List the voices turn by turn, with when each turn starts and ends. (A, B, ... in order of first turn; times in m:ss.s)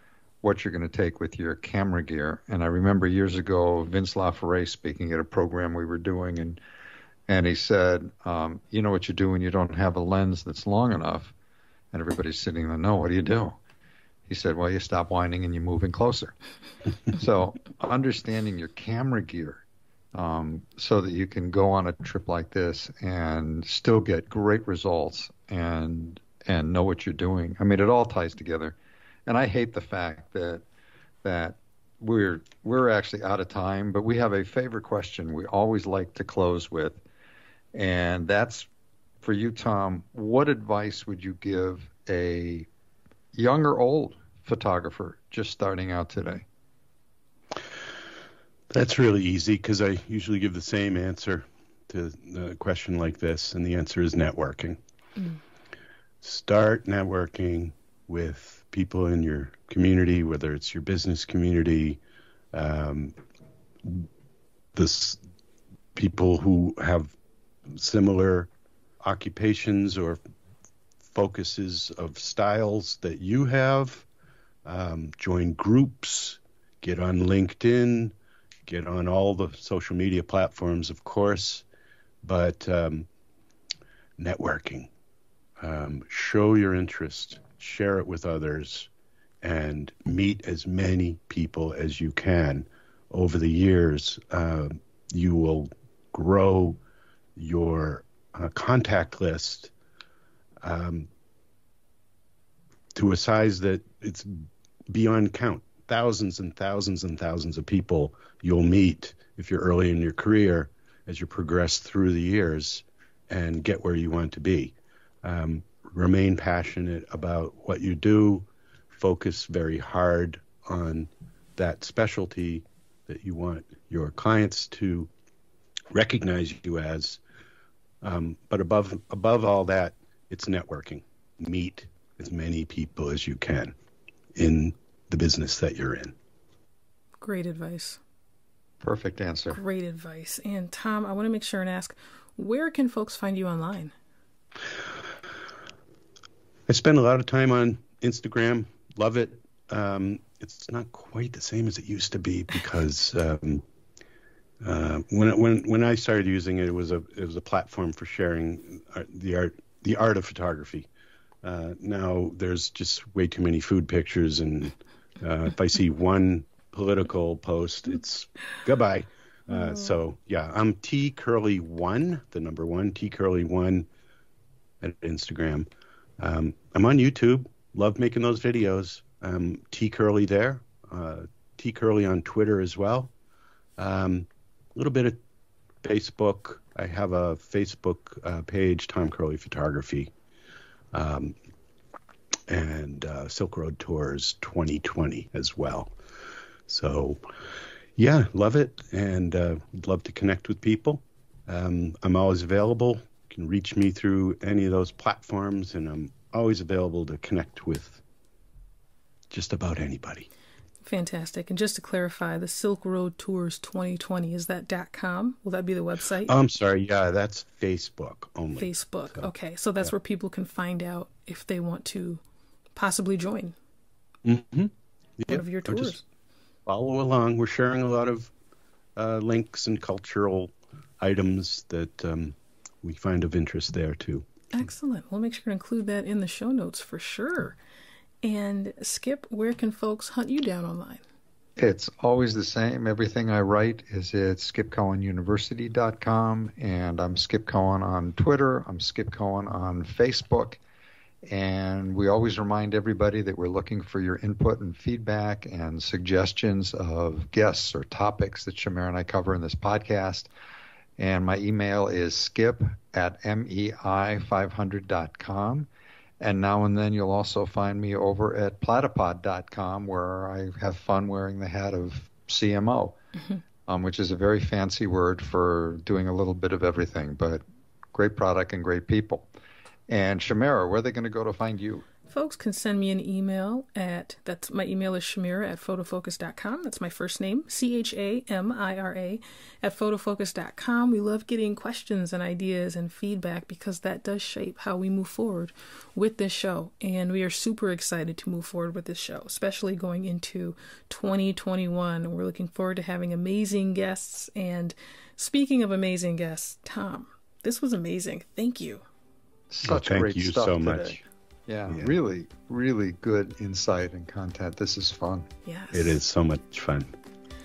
0:00.4-0:06.6 A
0:07.3-0:11.3 A
0:11.9-0:13.6 A
0:14.3-0:16.3 A
0:17.1-0:28.8 A
0:29.3-0:30.6 A
0:31.2-0:37.0 A
0:37.7-0:38.7 A
0:39.2-0:42.7 A
0:43.3-0:46.4 A
0:48.7-0:54.8 B
0:56.2-1:02.0 B
1:02.5-1:03.1 B
1:03.8-1:04.1 B
1:04.7-1:05.2 B
1:05.9-1:07.1 B
1:07.7-1:08.5 B
1:09.0-1:10.2 B
1:11.0-1:14.0 B
1:14.6-1:18.1 B
1:18.6-1:21.6 B
1:22.2-1:23.1 B
1:24.2-1:24.9 B
1:25.6-1:28.9 B
1:29.4-1:36.8 B
1:37.4-1:39.7 B
1:40.6-1:41.1 B
1:42.9-2:05.1 B
2:05.9-2:07.2 B
2:08.0-2:13.7 B
2:14.4-2:16.1 B
2:17.2-2:18.0 C
2:18.8-2:19.6 A
2:19.5-2:23.9 C
2:26.7-2:33.6 B
2:34.6-2:40.9 B
2:41.4-2:53.9 B
2:54.8-2:55.7 B
2:56.2-3:03.1 B
3:03.8-3:05.2 B
3:05.8-3:10.1 B
3:10.9-3:11.4 B
3:12.5-3:15.9 B
3:16.7-3:17.2 B
3:18.0-3:28.0 B
3:29.3-3:30.3 B
3:30.8-3:36.3 C
3:36.2-3:39.3 B
3:38.6-3:42.2 C
3:42.7-3:43.5 C
3:44.2-3:46.0 B
3:45.3-3:46.0 C
3:46.6-3:48.3 B
3:49.0-3:54.3 B
3:54.5-3:57.6 C
3:58.2-4:01.0 C
4:01.6-4:10.6 A
4:11.3-4:20.3 A
4:21.0-4:25.7 A
4:26.2-4:33.0 A
4:33.7-4:37.4 A
4:37.9-4:39.3 A
4:39.9-4:41.9 A
4:42.1-5:08.8 C
5:09.5-5:15.2 A
5:09.6-5:11.0 B
5:11.7-5:11.9 B
5:15.4-5:16.0 C
5:15.7-5:16.9 B